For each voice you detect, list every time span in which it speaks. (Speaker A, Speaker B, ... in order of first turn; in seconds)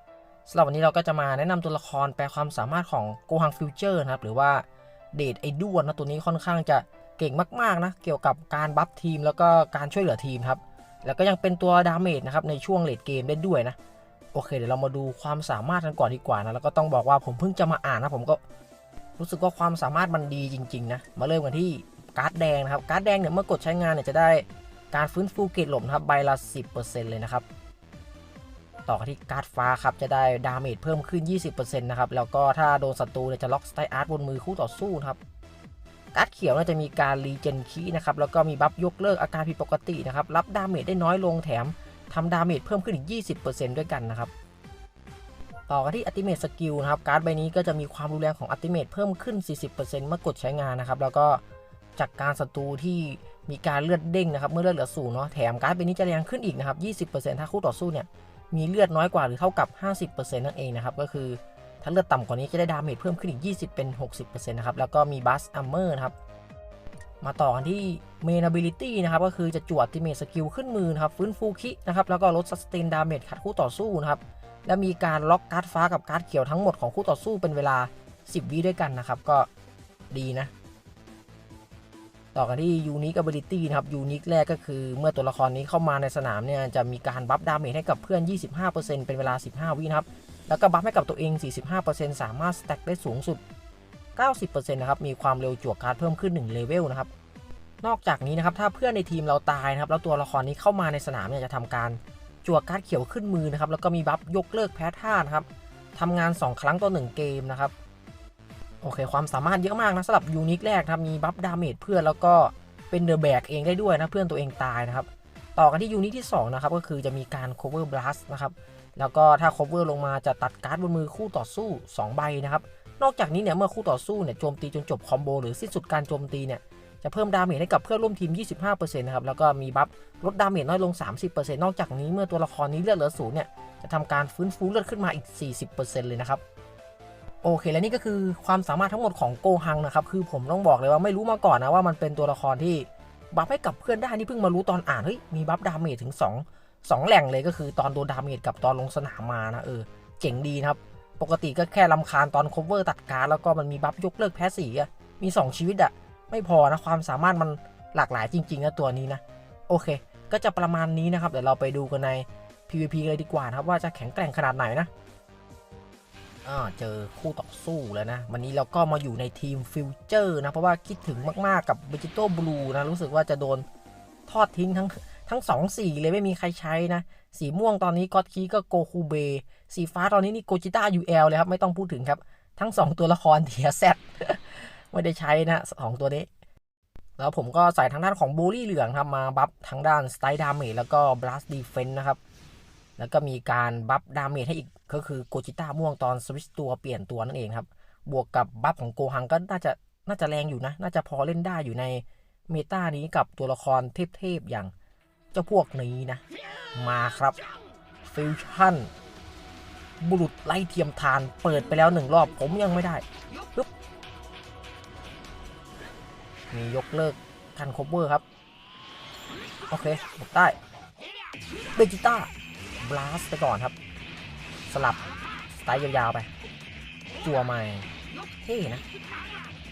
Speaker A: 0.5-13.8, 14.3-18.4, 19.2-27.4, 28.9-35.2, 36.1-44.3, 45.7-51.4, 52.0-66.1, 67.2-79.5, 80.1-80.5, 82.3-93.4, 94.2-97.1, 97.8-107.7, 108.8-136.4, 137.4-164.9, 166.4-173.7, 174.3-186.3, 187.2-192.2, 193.0-204.7, 205.3-206.2, 206.7-207.4, 208.0-208.9, 210.0-213.0, 216.5-218.2, 219.7-220.6, 221.7-222.3, 222.8-223.7, 224.7-225.0, 225.5-226.3, 227.2-227.9, 228.4-228.8